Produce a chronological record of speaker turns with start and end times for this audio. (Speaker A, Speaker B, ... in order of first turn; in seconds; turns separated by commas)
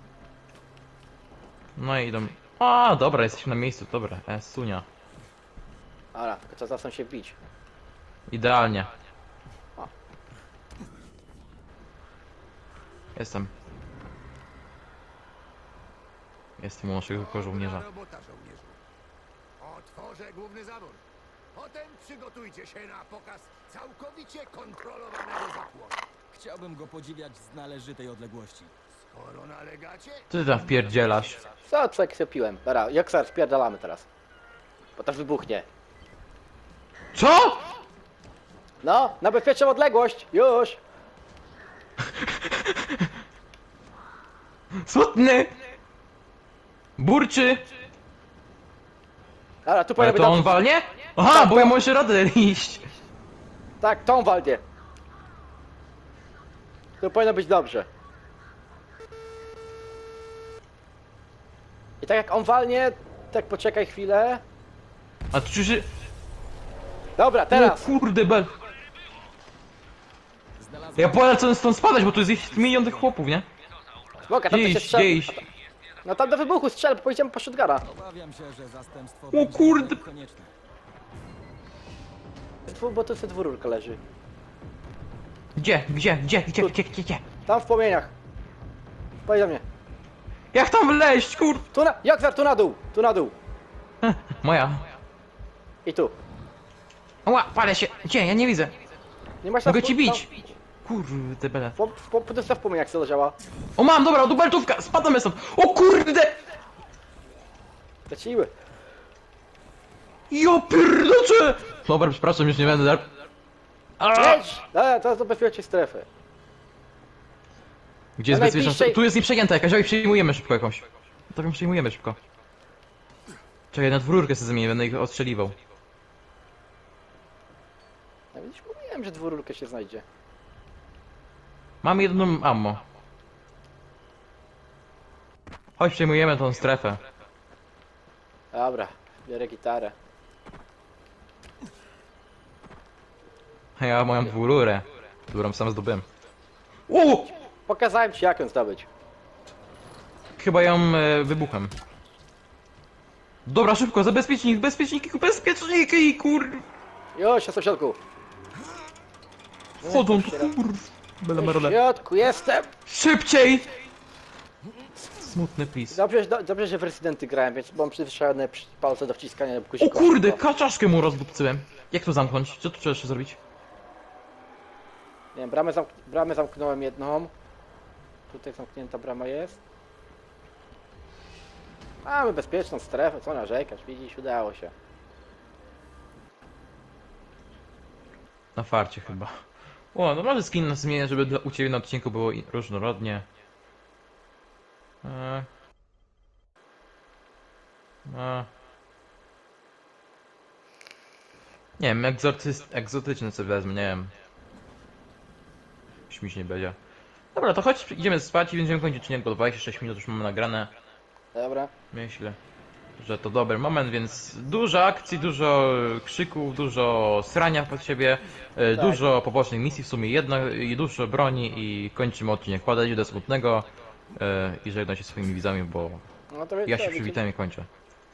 Speaker A: 1.8-4.8, Speaker B: 6.1-7.3, Speaker A: 8.3-8.9, Speaker A: 13.1-13.5, Speaker A: 16.6-17.8, Speaker C: 17.1-18.8, Speaker C: 19.6-26.0, Speaker D: 26.3-28.7, Speaker C: 29.1-30.3, Speaker A: 30.3-31.4, Speaker C: 30.8-31.5, Speaker B: 31.7-34.1, Speaker B: 35.0-35.6, Speaker A: 37.1-37.7, Speaker B: 38.8-40.8, Speaker A: 42.0-43.1, Speaker A: 44.7-45.5, Speaker A: 47.0-47.6, Speaker B: 49.6-50.6, Speaker A: 50.0-52.9, Speaker B: 51.2-51.7, Speaker B: 53.8-54.6, Speaker B: 57.0-57.9, Speaker B: 62.0-64.4, Speaker A: 65.3-65.9, Speaker B: 67.2-67.9, Speaker A: 67.5-68.5, Speaker D: 70.6-73.1, Speaker A: 71.0-73.5, Speaker B: 74.2-75.4, Speaker A: 74.5-75.4, Speaker B: 76.0-77.8, Speaker D: 77.8-80.5, Speaker A: 79.3-80.0, Speaker B: 82.7-84.0, Speaker A: 85.5-87.2, Speaker B: 87.5-88.1, Speaker B: 89.2-89.6, Speaker A: 90.5-91.7, Speaker B: 91.7-93.3, Speaker A: 94.0-94.8, Speaker B: 95.8-96.2, Speaker A: 97.2-98.7, Speaker B: 99.4-100.4, Speaker A: 99.6-100.3, Speaker A: 100.8-101.8, Speaker B: 101.8-103.3, Speaker A: 103.8-106.4, Speaker B: 108.1-108.5, Speaker A: 110.3-113.1, Speaker A: 114.0-114.5, Speaker B: 114.1-116.1, Speaker A: 118.2-122.2, Speaker B: 118.3-119.0, Speaker A: 123.7-125.5, Speaker B: 128.3-130.0, Speaker A: 131.8-132.8, Speaker A: 135.8-137.0, Speaker B: 138.5-139.9, Speaker A: 143.8-146.1, Speaker A: 146.9-147.3, Speaker B: 147.7-148.9, Speaker A: 150.4-151.7, Speaker A: 153.4-156.6, Speaker B: 157.2-158.0, Speaker B: 159.8-160.5, Speaker A: 159.8-161.8, Speaker B: 161.3-162.7, Speaker A: 162.8-163.7, Speaker A: 165.1-166.0, Speaker B: 165.9-170.4, Speaker A: 169.8-173.4, Speaker B: 175.3-177.3, Speaker B: 178.3-179.6, Speaker B: 182.0-184.7, Speaker A: 188.5-189.4, Speaker A: 189.9-193.2, Speaker A: 195.0-195.5, Speaker A: 198.0-198.5, Speaker A: 201.8-204.1, Speaker A: 206.1-206.8, Speaker A: 207.3-210.7, Speaker B: 211.3-211.7, Speaker A: 211.9-212.4, Speaker A: 213.0-226.0, Speaker B: 218.7-219.0, Speaker B: 226.3-227.2, Speaker A: 226.7-227.7